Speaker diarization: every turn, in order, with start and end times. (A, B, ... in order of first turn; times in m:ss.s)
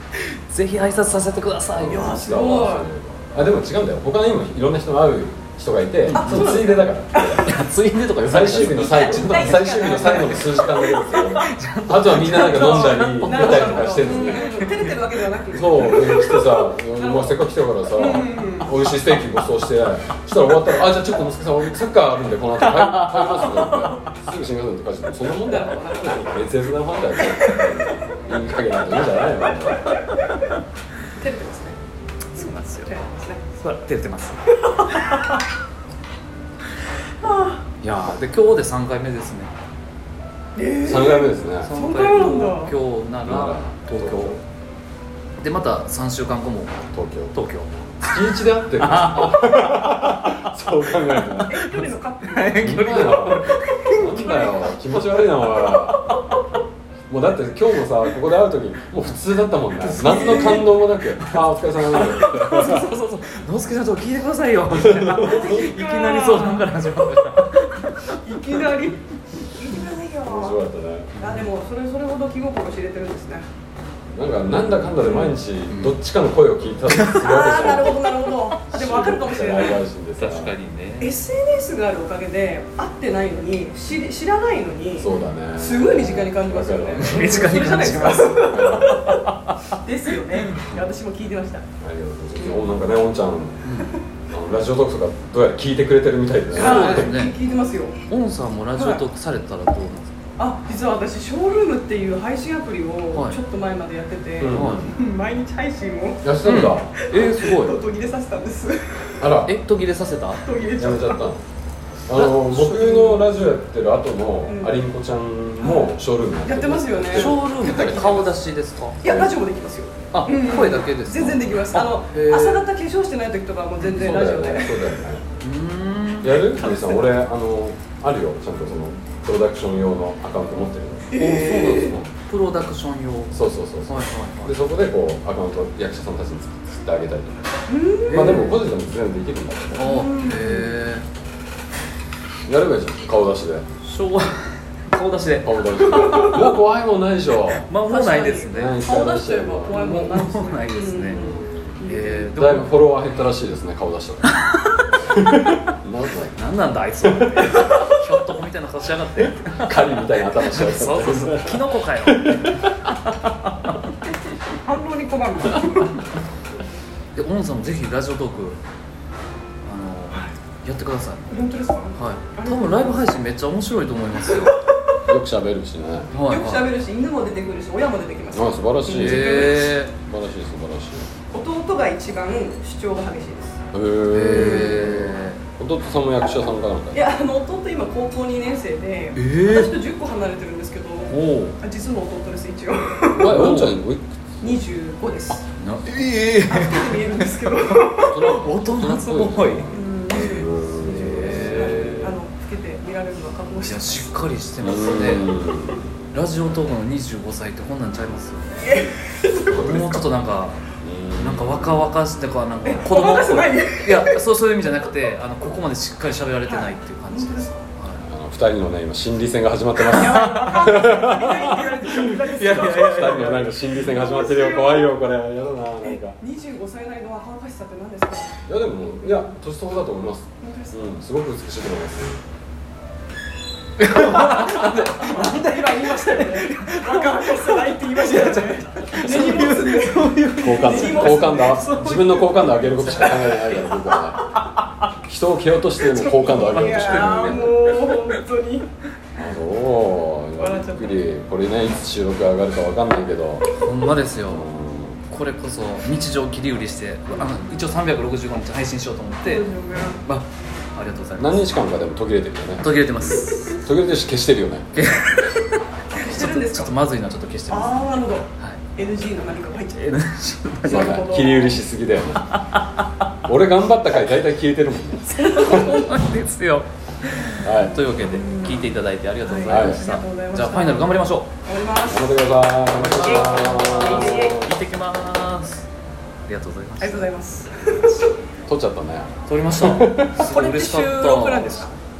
0:00.5-0:02.2 A
0:01.8-0:07.5 B
0:01.9-0:02.9 C
0:06.1-0:06.6 A
0:06.1-0:07.4 C
0:07.3-0:14.9 A
0:08.2-0:14.7 B
0:08.6-0:11.5 C
0:12.2-0:17.4 C
0:15.5-0:29.9 B
0:17.9-0:18.8 C
0:22.6-0:24.1 A
0:25.4-0:26.2 C
0:27.2-0:27.9 C
0:30.1-0:30.4 A
0:31.2-0:31.8 C
0:32.4-0:32.9 A
0:32.4-0:33.4 C
0:33.6-0:34.4 A
0:34.6-0:35.4 C
0:37.2-0:37.6 C
0:37.8-0:39.5 A
0:40.6-0:42.8 C
0:40.8-0:41.7 B
0:41.6-0:44.4 A
0:43.2-0:44.4 B
0:45.4-0:48.2 A
0:46.9-0:47.4 B
0:48.0-0:51.9 B
0:48.8-0:50.5 A
0:51.1-0:51.4 A
0:51.5-0:53.1 C
0:52.3-0:54.4 A
0:52.5-0:56.2 B
0:54.0-0:54.6 C
0:55.6-0:56.4 A
0:57.1-1:02.9 B
0:59.8-1:08.2 A
1:00.0-1:00.7 C
1:04.8-1:05.5 B
1:05.2-1:06.8 C
1:08.0-1:09.0 C
1:09.6-1:10.6 C
1:10.2-1:11.3 B
1:11.2-1:13.4 C
1:11.2-1:11.5 A
1:14.1-1:20.5 B
1:15.1-1:16.0 A
1:16.9-1:17.3 A
1:17.2-1:19.8 C
1:20.2-1:21.1 A
1:21.0-1:31.6 C
1:25.0-1:29.1 B
1:27.0-1:29.8 A
1:30.3-1:30.8 A
1:31.8-1:33.7 B
1:33.6-1:34.0 A
1:34.3-1:37.2 B
1:36.5-1:37.4 A
1:36.6-1:38.0 C
1:38.1-1:40.2 A
1:38.8-1:39.0 C
1:40.4-1:46.3 C
1:43.1-1:43.4 A
1:44.4-1:44.9 B
1:44.5-1:44.9 A
1:46.2-1:46.9 B
1:46.4-1:47.8 A
1:46.9-1:49.3 C
1:49.2-1:49.6 B
1:49.4-1:50.4 A
1:50.4-1:51.2 C
1:50.8-1:51.4 B
1:52.1-1:58.3 B
1:52.1-1:53.2 A
1:54.5-1:54.8 C
1:55.6-1:57.9 C
1:57.1-1:59.2 A
1:59.0-2:04.9 C
2:00.1-2:02.7 A
2:03.8-2:04.2 A
2:03.9-2:05.2 B
2:05.4-2:06.4 A
2:06.2-2:12.1 B
2:06.6-2:07.2 C
2:11.1-2:14.6 A
2:11.2-2:12.0 C
2:13.3-2:17.4 B
2:17.7-2:18.5 C
2:18.1-2:18.6 A
2:18.1-2:20.0 B
2:19.8-2:21.0 A
2:19.8-2:20.8 C
2:22.5-2:23.7 B
2:23.8-2:26.4 A
2:25.4-2:27.7 B
2:25.9-2:26.4 C
2:27.7-2:28.8 A
2:27.8-2:32.3 C
2:28.5-2:30.0 B
2:29.7-2:31.4 A
2:31.1-2:31.8 B
2:31.9-2:33.0 A
2:32.3-2:34.3 B
2:34.3-2:34.8 A
2:35.1-2:36.4 B
2:36.4-2:43.9 A
2:37.0-2:38.0 B
2:39.1-2:42.8 B
2:44.5-2:46.0 C
2:47.2-2:48.6 A
2:49.6-2:51.3 A
2:51.3-2:53.1 C
2:52.0-2:54.6 A
2:55.1-2:56.1 B
2:56.1-2:56.7 A
2:56.2-2:59.8 C
2:58.3-3:01.1 B
2:58.9-2:59.9 A
3:01.3-3:03.6 C
3:03.7-3:07.0 B
3:04.1-3:05.4 A
3:04.4-3:04.7 C
3:06.9-3:13.5 C
3:09.1-3:09.8 A
3:11.1-3:11.6 A
3:13.2-3:13.8 A
3:13.2-3:14.5 B
3:14.4-3:15.4 C
3:15.5-3:19.7 A
3:16.5-3:18.4 C
3:18.1-3:22.2 B
3:19.7-3:24.2 C
3:21.0-3:22.1 A
3:23.6-3:25.3 A
3:24.6-3:25.9 B
3:26.1-3:28.8 A
3:28.6-3:29.8 C
3:29.4-3:30.6 A
3:29.5-3:29.9 B
3:30.8-3:31.9 B
3:31.2-3:38.1 A
3:32.6-3:34.2 C
3:36.4-3:37.6 C
3:38.0-3:46.2 B
3:39.9-3:44.9 C
3:40.1-3:40.6 A
3:42.2-3:43.4 A
3:45.8-3:48.4 C
3:48.5-3:52.2 B
3:49.0-3:49.3 C
3:50.4-3:50.9 C
3:53.8-4:03.9 A
3:54.2-4:01.7 C
4:00.4-4:04.2 B
4:05.0-4:07.6 B
4:05.8-4:08.7 C
4:06.6-4:08.0 A
4:09.2-4:15.0 B
4:10.4-4:11.0 C
4:13.6-4:14.5 A
4:15.1-4:19.5 A
4:19.2-4:20.0 C
4:20.0-4:21.5 A
4:21.2-4:24.7 B
4:22.6-4:23.6 A
4:24.8-4:25.4 A
4:25.9-4:26.7 C
4:26.0-4:27.9 A
4:27.5-4:29.8 C
4:28.4-4:28.6 A
4:29.7-4:31.0 A
4:30.6-4:31.6 C
4:30.6-4:32.3 B
4:32.3-4:32.8 A
4:33.2-4:35.1 B
4:35.1-4:36.0 C
4:35.1-4:41.3 A
4:37.2-4:42.2 C
4:37.4-4:37.8 B
4:39.5-4:39.9 B
4:41.9-4:44.5 B
4:42.7-4:45.7 A
4:42.9-4:44.4 C
4:46.3-4:47.1 A
4:46.8-4:48.1 C
4:48.5-4:50.2 B
4:49.3-4:51.7 A
4:50.2-4:51.7 C